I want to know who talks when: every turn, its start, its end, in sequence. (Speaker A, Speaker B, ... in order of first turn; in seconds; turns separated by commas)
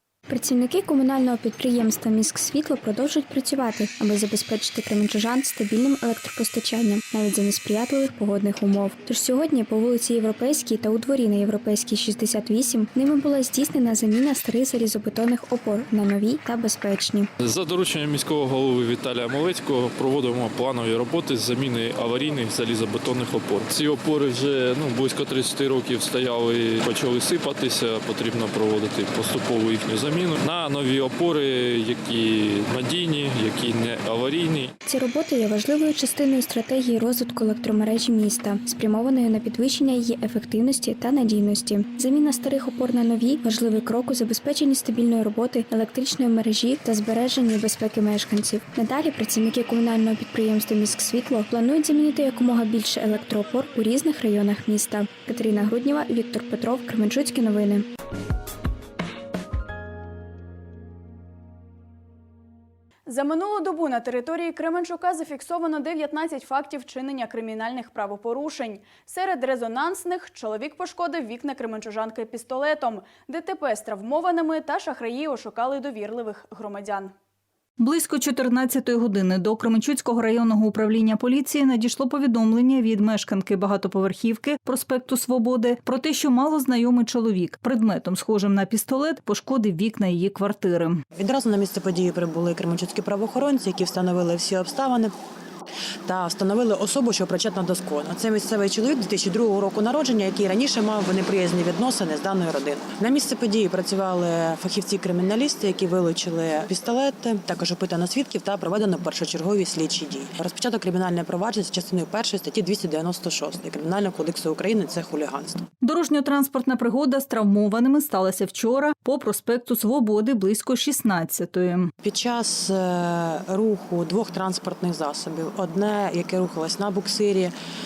Speaker A: 0.3-17.3, Speaker B: 17.4-34.7, Speaker A: 34.9-57.9, Speaker C: 63.1-77.1, Speaker D: 77.8-91.0, Speaker E: 91.1-95.1, Speaker E: 96.1-115.6, Speaker D: 115.8-121.9, Speaker E: 122.0-127.5